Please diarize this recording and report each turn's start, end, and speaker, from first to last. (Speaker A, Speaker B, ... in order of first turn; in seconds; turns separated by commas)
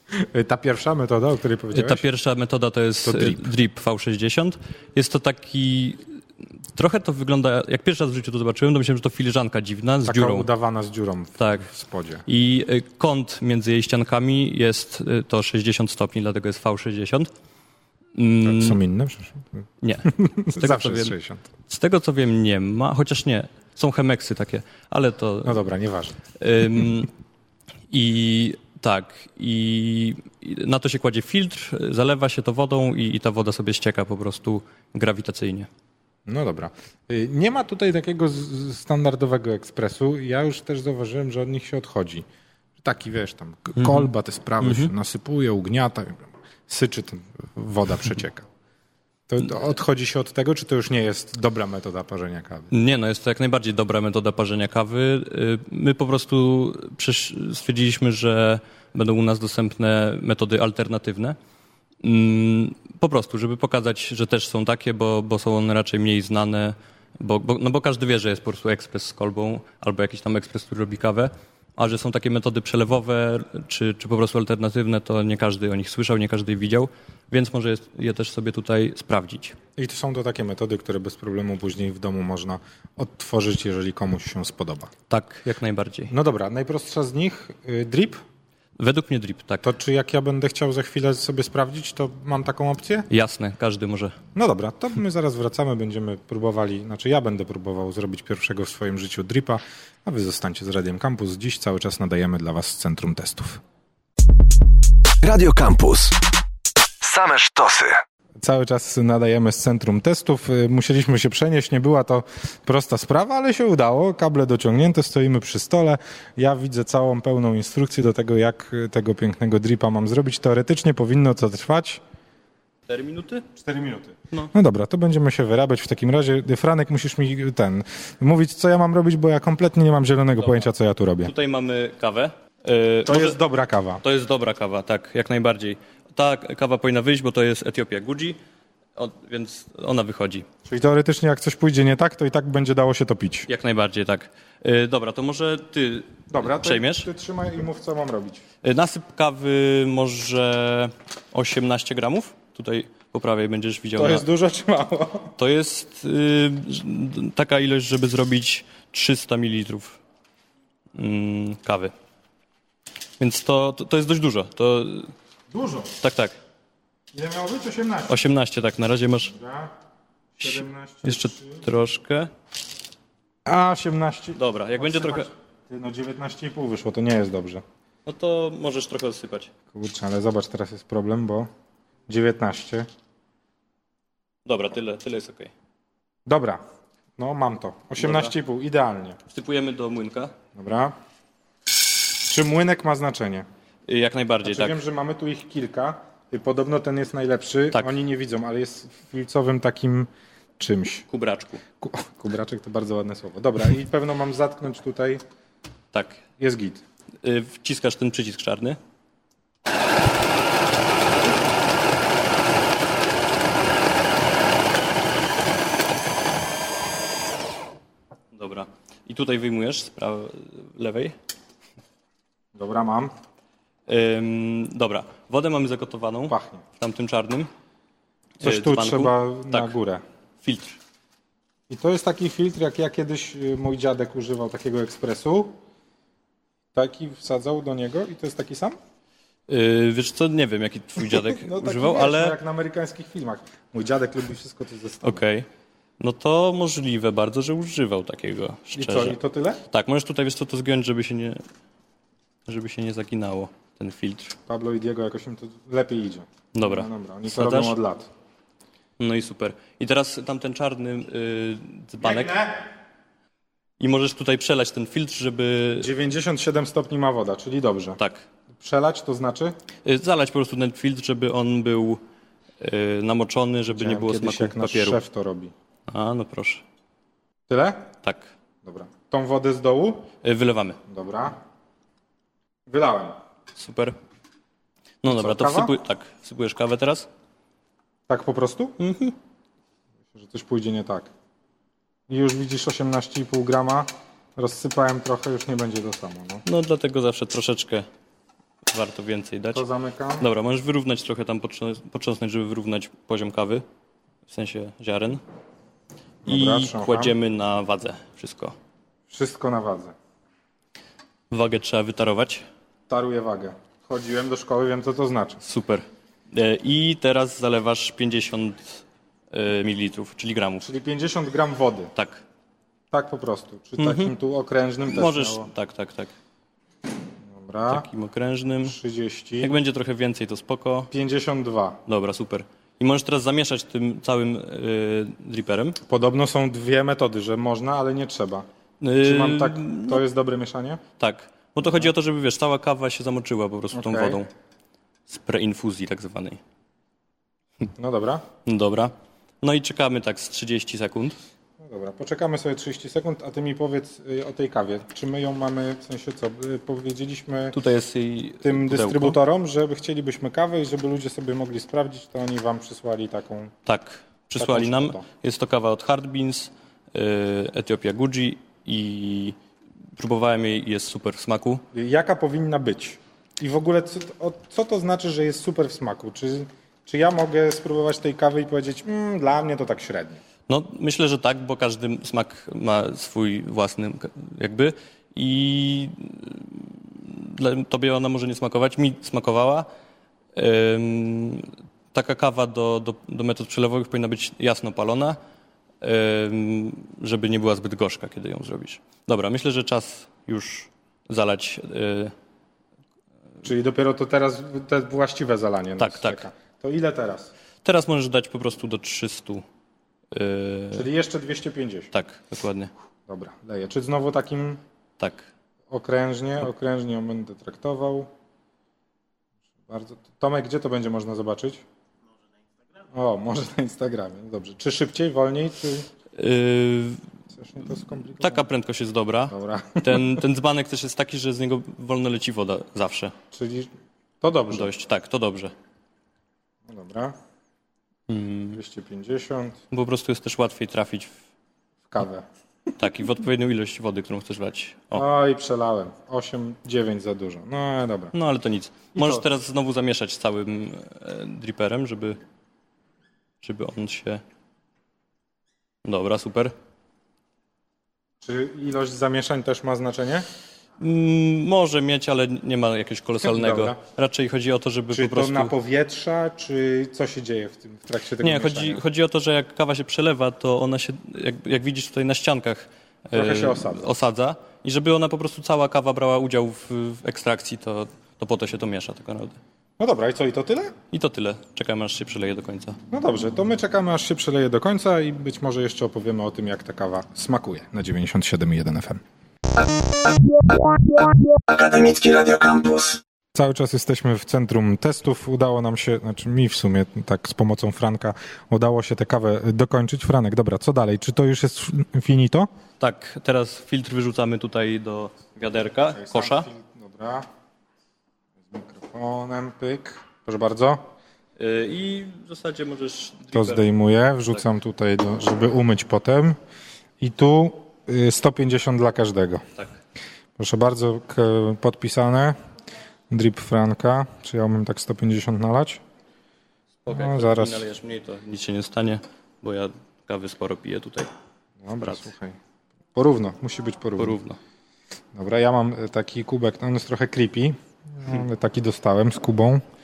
Speaker A: 0.1-2.1, Speaker B: 1.7-6.0, Speaker A: 3.0-3.4, Speaker B: 6.7-10.5, Speaker A: 10.0-12.2, Speaker B: 11.4-11.7, Speaker B: 12.3-17.3, Speaker B: 18.1-18.8, Speaker A: 18.4-19.4, Speaker B: 19.8-21.1, Speaker A: 20.1-21.4, Speaker B: 21.7-25.6, Speaker A: 25.4-26.2, Speaker B: 26.4-27.1, Speaker B: 27.9-35.7, Speaker A: 36.3-42.2, Speaker A: 42.8-48.4, Speaker B: 43.8-44.1, Speaker B: 44.6-44.9, Speaker A: 49.3-52.7, Speaker B: 52.7-61.4, Speaker B: 62.0-79.5, Speaker A: 79.8-84.9, Speaker B: 85.1-86.1, Speaker A: 86.1-88.2, Speaker B: 88.8-89.7, Speaker A: 89.6-93.1, Speaker B: 93.1-94.1, Speaker A: 94.3-103.6, Speaker C: 105.2-106.2, Speaker C: 107.0-108.0, Speaker A: 108.4-122.0, Speaker B: 122.9-123.5, Speaker A: 123.5-131.3, Speaker B: 130.4-133.4, Speaker A: 133.1-134.0, Speaker B: 134.0-138.4, Speaker B: 138.9-140.4, Speaker A: 140.7-143.5, Speaker B: 143.5-147.1, Speaker A: 146.3-148.4, Speaker B: 148.6-154.2, Speaker A: 153.9-155.3, Speaker B: 155.3-160.0, Speaker B: 160.9-161.9, Speaker B: 163.2-165.1, Speaker A: 165.5-165.9, Speaker B: 166.0-166.4, Speaker A: 167.1-168.2, Speaker B: 168.1-169.3, Speaker A: 169.3-169.7, Speaker A: 170.3-171.6, Speaker B: 170.4-172.3, Speaker A: 173.4-177.6, Speaker B: 174.3-175.3, Speaker B: 178.0-179.5, Speaker A: 179.7-181.5, Speaker A: 182.1-182.9, Speaker B: 184.4-185.5, Speaker A: 186.2-186.6, Speaker A: 187.2-189.2, Speaker B: 188.0-188.3, Speaker B: 189.3-190.3, Speaker A: 190.6-190.9, Speaker A: 192.2-193.5, Speaker B: 193.9-194.8, Speaker A: 194.4-201.1, Speaker B: 197.7-198.0, Speaker B: 201.1-201.6, Speaker A: 201.8-205.2, Speaker B: 205.9-206.2, Speaker A: 206.4-206.8, Speaker B: 207.2-208.8, Speaker B: 218.3-221.1, Speaker A: 222.5-223.1, Speaker B: 223.9-227.5, Speaker A: 226.3-226.6, Speaker A: 228.4-230.0, Speaker B: 228.4-229.8, Speaker B: 230.4-230.8, Speaker A: 231.7-235.6, Speaker A: 236.7-238.8, Speaker B: 239.5-242.4, Speaker A: 241.1-245.2, Speaker B: 245.0-245.5, Speaker B: 246.0-251.4, Speaker A: 248.7-249.6, Speaker B: 252.5-254.3, Speaker A: 254.5-258.1, Speaker B: 256.5-257.8, Speaker B: 259.0-262.4, Speaker A: 262.0-262.6, Speaker B: 263.8-265.9, Speaker A: 265.8-268.0, Speaker B: 268.0-268.2, Speaker A: 268.6-269.5, Speaker B: 269.8-272.0, Speaker B: 272.6-275.0, Speaker A: 273.7-275.5, Speaker B: 275.9-276.6, Speaker A: 277.5-277.9, Speaker B: 278.0-278.3, Speaker A: 278.6-280.1, Speaker B: 280.2-280.8, Speaker A: 280.9-281.4, Speaker A: 282.7-283.2, Speaker B: 283.5-283.9, Speaker B: 285.0-287.1, Speaker A: 285.0-285.8, Speaker A: 288.1-288.8, Speaker B: 288.8-289.1, Speaker A: 290.1-291.1, Speaker A: 292.1-296.4, Speaker B: 296.4-297.8, Speaker B: 298.7-299.7, Speaker A: 299.5-300.3, Speaker B: 300.2-303.6, Speaker B: 304.2-305.2, Speaker A: 306.2-307.1, Speaker B: 306.2-308.6, Speaker A: 309.1-309.9, Speaker B: 311.3-312.4, Speaker A: 312.9-315.4, Speaker B: 315.4-320.7, Speaker A: 320.6-321.9, Speaker B: 321.9-322.2, Speaker A: 322.9-325.5, Speaker B: 323.8-324.1, Speaker B: 324.9-326.1, Speaker A: 327.3-327.9, Speaker B: 327.7-328.8, Speaker A: 328.6-329.5, Speaker B: 329.4-330.9, Speaker A: 330.9-331.8, Speaker B: 331.9-335.8, Speaker A: 335.9-338.4, Speaker B: 338.8-340.0, Speaker A: 339.0-340.8, Speaker B: 341.0-344.3, Speaker A: 343.7-344.2, Speaker B: 345.1-346.4, Speaker A: 347.8-348.2, Speaker B: 348.4-351.2, Speaker A: 351.6-357.6, Speaker B: 357.5-359.2, Speaker A: 358.4-363.5, Speaker B: 363.6-369.4, Speaker A: 364.4-365.0, Speaker B: 370.0-371.6, Speaker A: 371.7-380.2, Speaker B: 380.5-389.7, Speaker B: 390.3-395.2, Speaker B: 395.8-402.1, Speaker A: 403.4-407.3, Speaker B: 405.8-406.3, Speaker B: 407.6-409.4, Speaker B: 410.1-410.9, Speaker A: 410.7-411.9, Speaker B: 411.9-412.7, Speaker A: 413.1-414.6, Speaker B: 415.0-415.3, Speaker A: 415.7-418.1, Speaker A: 419.7-421.6, Speaker A: 422.9-425.9, Speaker B: 426.1-427.0, Speaker A: 427.3-428.5, Speaker B: 428.2-433.1, Speaker A: 429.3-430.2, Speaker A: 433.3-433.7, Speaker A: 434.2-434.7, Speaker B: 434.5-435.5, Speaker A: 436.7-437.1, Speaker B: 438.1-438.6, Speaker A: 438.5-439.6, Speaker B: 439.7-441.1, Speaker A: 441.9-442.2, Speaker B: 442.8-445.0, Speaker A: 444.9-448.1, Speaker B: 448.1-452.2, Speaker A: 448.9-449.2, Speaker B: 453.4-454.2, Speaker B: 455.8-456.5, Speaker A: 458.2-460.2, Speaker B: 460.8-465.5, Speaker A: 463.2-463.8, Speaker A: 464.9-468.8, Speaker B: 468.2-479.4, Speaker A: 473.1-473.8, Speaker A: 479.8-480.7, Speaker B: 480.9-482.8, Speaker A: 482.9-489.0, Speaker C: 489.6-493.0, Speaker A: 493.3-502.5, Speaker B: 502.8-506.5, Speaker A: 505.6-507.2, Speaker A: 508.4-510.8, Speaker B: 511.4-513.7, Speaker A: 513.3-516.4, Speaker A: 517.0-519.4, Speaker A: 520.4-522.4, Speaker A: 523.1-525.8, Speaker B: 526.8-531.1, Speaker A: 526.9-527.7, Speaker A: 531.6-532.4, Speaker A: 532.9-534.2, Speaker B: 534.0-534.4, Speaker A: 535.1-539.6